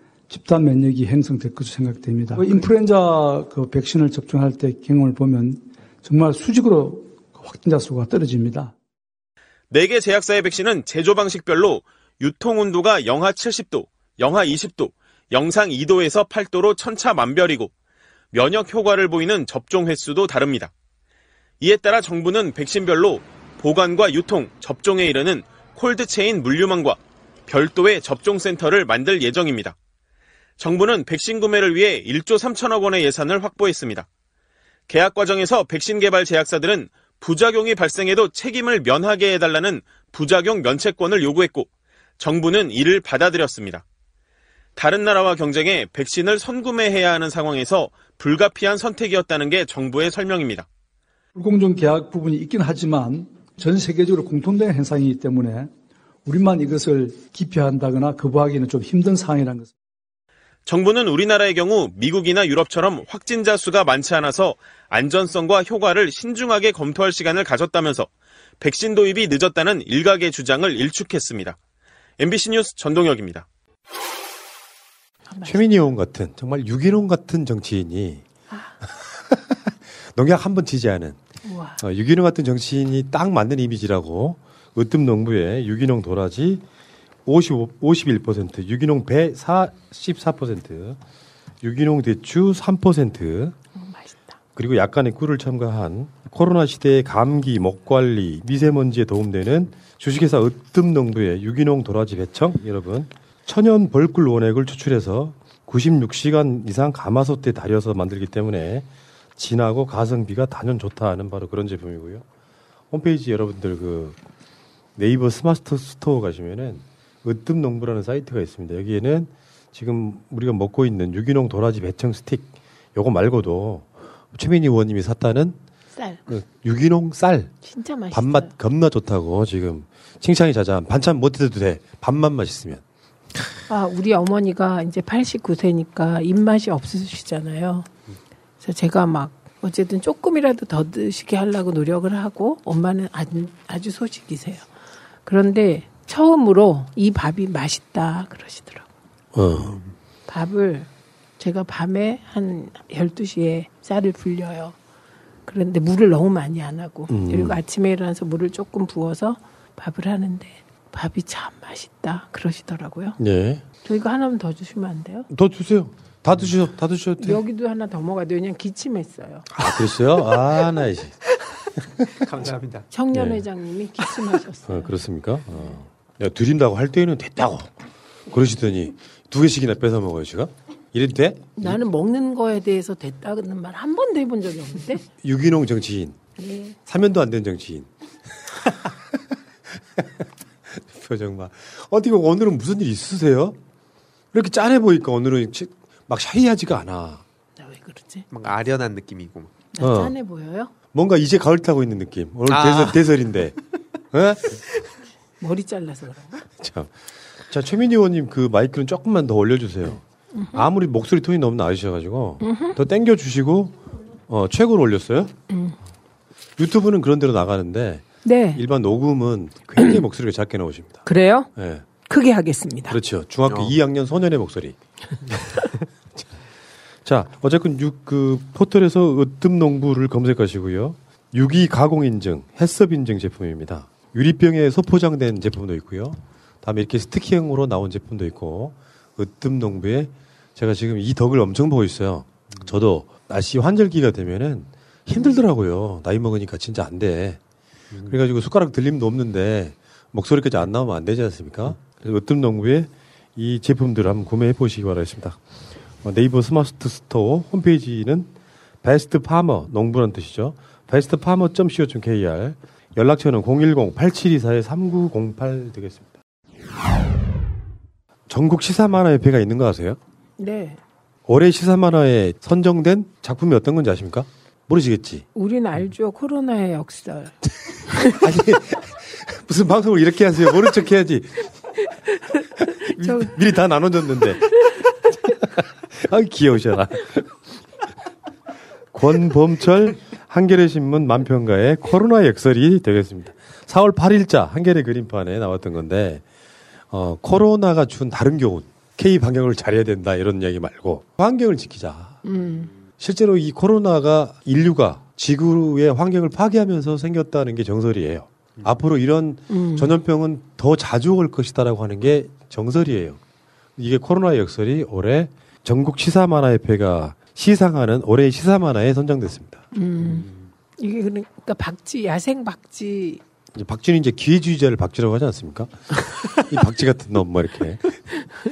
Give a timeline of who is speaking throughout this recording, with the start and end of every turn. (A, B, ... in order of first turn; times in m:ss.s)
0:00.3-0:08.7 A
0:09.7-0:17.7 B
0:18.3-0:20.7 B
0:21.6-0:29.7 B
0:30.6-0:34.1 B
0:34.9-0:41.7 B
0:42.2-0:43.8 B
0:44.8-0:50.6 B
0:51.3-0:55.7 A
0:56.2-0:59.7 A
1:00.6-1:08.1 B
1:08.6-1:11.6 B
1:12.2-1:13.4 B
1:15.3-1:15.6 C
1:15.4-1:18.2 D
1:19.1-1:21.2 D
1:21.4-1:21.8 C
1:21.8-1:26.6 D
1:27.2-1:31.0 D
1:31.6-1:33.5 D
1:33.7-1:34.3 C
1:34.6-1:52.2 D
1:52.9-1:54.2 D
1:55.0-2:05.6 D
2:05.9-2:06.2 C
2:06.3-2:07.5 D
2:07.6-2:08.5 C
2:08.1-2:12.8 D
2:13.7-2:17.9 C
2:18.6-2:24.7 C
2:25.2-2:28.8 C
2:29.3-2:29.8 D
2:29.6-2:29.9 E
2:30.3-2:30.9 C
2:31.4-2:34.8 C
2:35.5-2:43.2 C
2:37.1-2:37.6 D
2:43.2-2:43.6 D
2:43.8-2:45.3 C
2:45.3-2:47.4 D
2:47.2-2:49.5 C
2:49.5-2:51.2 D
2:52.1-2:52.9 E
2:52.9-2:54.9 C
2:53.1-2:53.4 D
2:54.7-2:57.7 D
2:58.3-3:01.8 D
3:01.6-3:05.0 C
3:05.2-3:06.2 D
3:06.4-3:06.8 C
3:06.8-3:07.9 D
3:08.5-3:08.9 D
3:10.7-3:13.6 D
3:14.3-3:17.2 D
3:17.6-3:18.2 C
3:18.3-3:19.5 E
3:19.7-3:20.7 C
3:19.8-3:20.1 D
3:20.9-3:23.5 D
3:22.4-3:23.0 E
3:24.1-3:24.6 D
3:25.4-3:26.4 C
3:26.6-3:26.9 D
3:27.5-3:30.0 D
3:30.3-3:30.6 C
3:30.5-3:33.8 D
3:32.4-3:32.8 C
3:34.3-3:35.3 D
3:35.5-3:35.8 C
3:36.6-3:41.0 D
3:38.2-3:38.6 C
3:41.0-3:41.5 C
3:41.5-3:41.8 D
3:42.0-3:43.0 C
3:42.9-3:44.8 D
3:43.5-3:43.7 E
3:47.0-4:07.4 D
4:08.1-4:15.4 D
4:16.0-4:18.3 D
4:18.8-4:26.1 D
4:28.3-4:30.0 D
4:30.4-4:30.8 C
4:31.2-4:35.2 D
4:35.3-4:37.3 C
4:38.2-4:41.5 D
4:42.8-4:44.6 D
4:43.0-4:43.3 C
4:45.9-4:47.4 D
4:48.9-4:56.2 D
4:56.9-5:02.2 D
5:02.2-5:02.7 C
5:03.0-5:13.2 D
5:09.5-5:09.9 C
5:13.8-5:19.6 D
5:19.7-5:23.2 C
5:23.5-5:28.0 D